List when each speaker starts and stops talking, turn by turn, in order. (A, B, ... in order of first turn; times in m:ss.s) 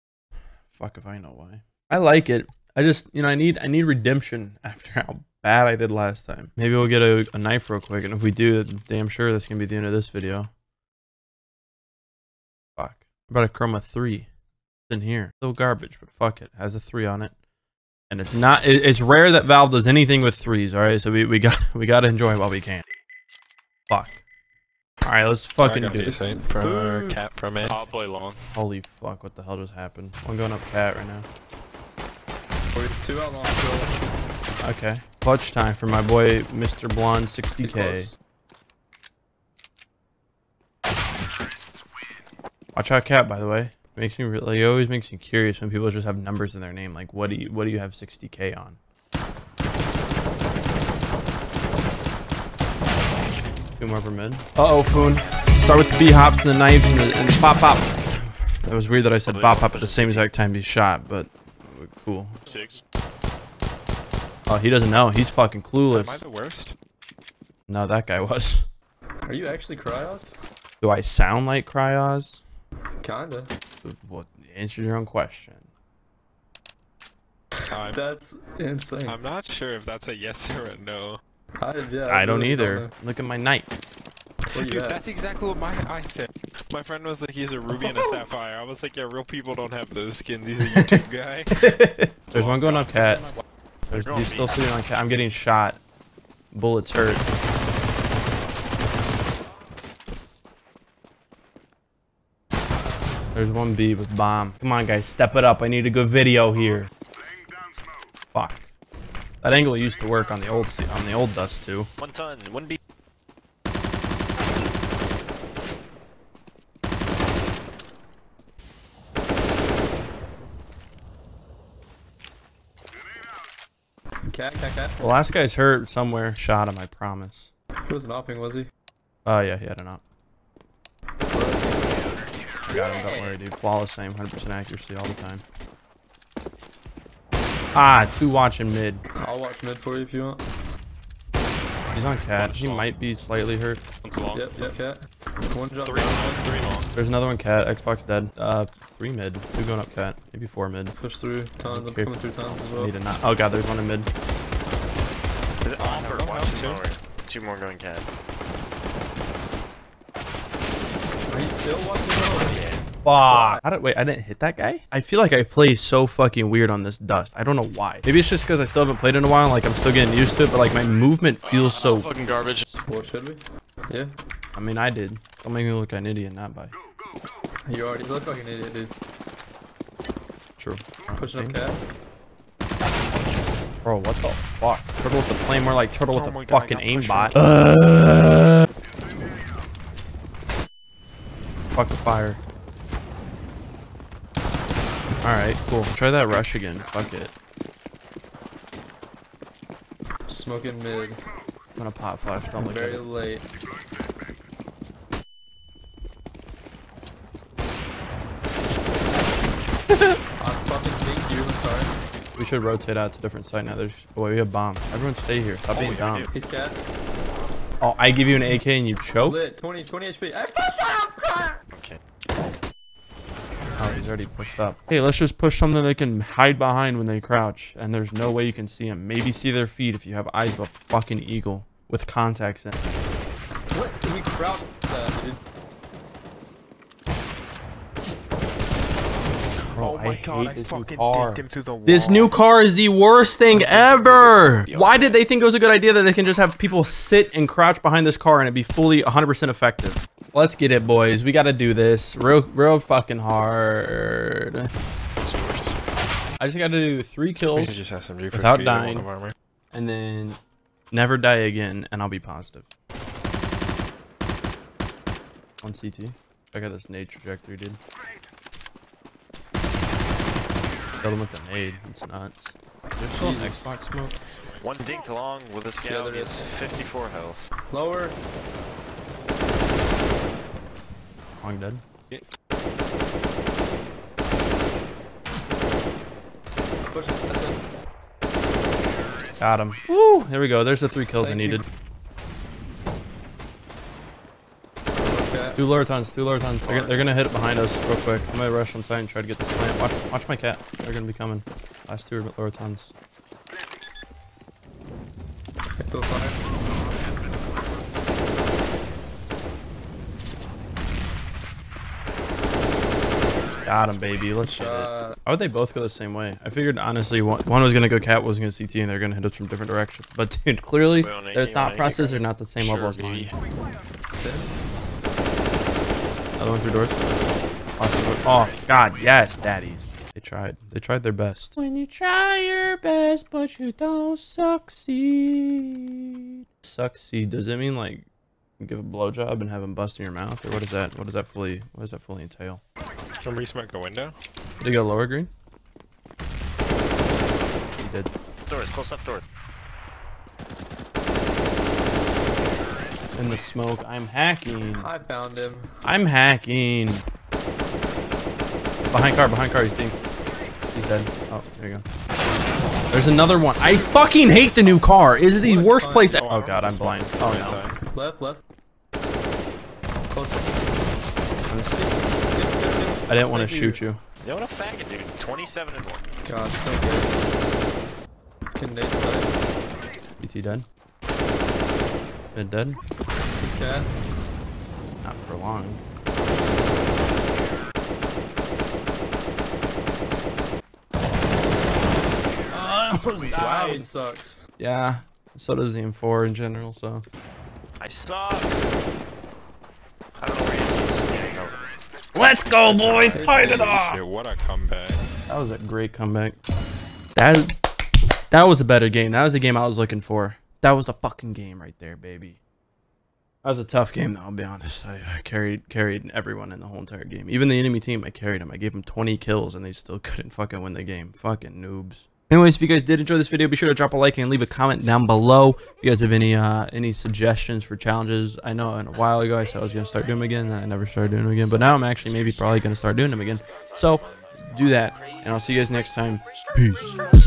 0:00.7-0:10.5 A
0:12.8-0:14.3 A
0:14.9-0:17.3 A
0:18.1-0:22.8 A
0:23.9-0:24.2 A
0:25.0-0:26.3 A
0:25.6-0:27.8 B
0:26.4-0:27.2 C
0:27.6-0:28.4 D
0:28.5-0:31.3 A
0:32.7-0:33.9 C
0:34.6-0:38.1 A
0:37.6-0:38.1 C
0:42.7-0:48.8 A
0:53.8-1:02.4 A
0:59.2-1:00.3 D
1:02.5-1:02.8 D
1:04.5-1:06.2 A
1:05.9-1:06.7 B
1:07.7-1:08.6 A
1:09.2-1:10.4 C
1:10.8-1:12.4 A
1:13.0-1:13.5 C
1:13.8-1:15.6 A
1:17.7-1:18.0 B
1:17.8-1:19.2 C
1:19.0-1:21.2 B
1:21.6-1:22.9 C
1:22.1-1:23.7 A
1:24.5-1:25.0 C
1:24.5-1:31.6 B
1:27.7-1:28.2 A
1:30.6-1:33.3 A
1:32.3-1:32.7 B
1:33.9-1:35.8 A
1:33.9-1:34.6 D
1:36.5-1:37.2 A
1:43.3-1:46.9 A
1:48.3-1:48.7 A
1:49.4-1:51.9 A
1:52.0-1:52.8 D
2:04.2-2:05.1 C
2:05.0-2:07.5 A
2:07.8-2:08.7 C
2:09.2-2:10.0 A
2:11.3-2:12.0 C
2:12.7-2:15.4 A
2:17.7-2:19.0 A
2:19.2-2:20.4 C
2:21.9-2:23.8 A
2:24.0-2:24.7 D
2:24.3-2:26.6 C
2:25.8-2:26.9 D
2:27.0-2:30.9 A
2:31.0-2:32.9 C
2:31.6-2:34.1 A
2:35.6-2:38.1 D
2:35.8-2:36.7 C
2:36.5-2:36.8 B
2:41.3-2:42.7 C
2:42.4-2:42.8 D
2:43.0-2:52.1 A
2:43.3-2:43.6 C
2:51.4-2:52.6 D
2:52.8-2:54.1 C
2:54.5-2:56.7 A
2:57.7-2:58.9 C
3:00.6-3:01.6 A
3:01.1-3:01.8 C
3:03.8-3:08.6 A
3:06.1-3:07.4 D
3:11.7-3:12.4 A
3:15.2-3:17.3 A
3:20.3-3:21.2 C
3:21.8-3:23.0 A
3:22.5-3:23.4 C
3:30.4-3:31.9 C
3:32.4-3:36.3 A
3:35.7-3:36.3 D
3:36.3-3:36.8 C
3:37.8-3:39.4 A
3:39.2-3:41.6 C
3:41.7-3:42.0 D
3:43.8-3:52.8 A
3:53.7-3:55.4 C
3:59.6-4:02.4 B
3:59.7-4:14.7 A
4:03.6-4:03.8 C
4:15.2-4:15.8 D
4:16.4-4:17.8 A
4:17.4-4:19.3 B
4:18.3-4:19.1 A
4:19.7-4:20.4 A
4:20.9-4:22.7 A
4:25.6-4:27.8 A
4:31.0-4:34.2 A
4:33.1-4:33.8 C
4:34.4-4:34.6 B
4:34.6-4:37.4 D
4:35.8-4:36.5 C
4:37.7-4:38.2 C
4:41.4-4:41.8 A
4:46.9-4:47.6 C
4:49.4-4:51.6 A
4:51.2-4:51.6 C
4:55.0-4:55.6 C
4:55.5-5:02.9 A
5:05.8-5:06.4 C
5:13.6-5:23.3 A
5:14.4-5:15.2 C
5:20.9-5:23.3 D
5:24.2-5:24.5 C
5:26.4-5:27.1 A
5:27.8-5:38.1 A
5:28.3-5:29.2 D
5:38.6-5:42.6 A
5:43.2-5:44.1 B
5:44.6-5:45.3 A
5:47.8-5:48.1 A
5:48.5-5:49.2 D
5:53.1-5:54.9 A
5:54.7-5:55.7 C
5:55.8-5:57.0 A
5:58.9-6:00.0 A
6:00.7-6:01.8 A
6:02.9-6:07.6 A
6:05.3-6:06.2 C
6:06.0-6:07.4 B
6:07.2-6:07.8 D
6:07.9-6:08.4 C
6:10.1-6:10.6 C
6:11.5-6:11.9 A
6:11.7-6:13.8 C
6:13.1-6:14.0 A
6:14.2-6:16.0 D
6:16.2-6:17.2 C
6:18.5-6:19.3 C
6:20.2-6:20.6 A
6:22.3-6:22.8 A
6:23.4-6:23.9 C
6:25.0-6:25.8 A
6:32.5-6:33.9 A
6:33.3-6:34.5 C
6:34.6-6:37.0 A
6:37.8-6:38.5 D
6:40.2-6:41.7 D
6:42.1-6:44.0 A
6:42.7-6:45.0 B
6:43.1-6:43.6 C
6:45.3-6:46.4 A
6:47.2-6:47.5 A
6:48.3-6:52.4 A
6:53.4-7:17.0 A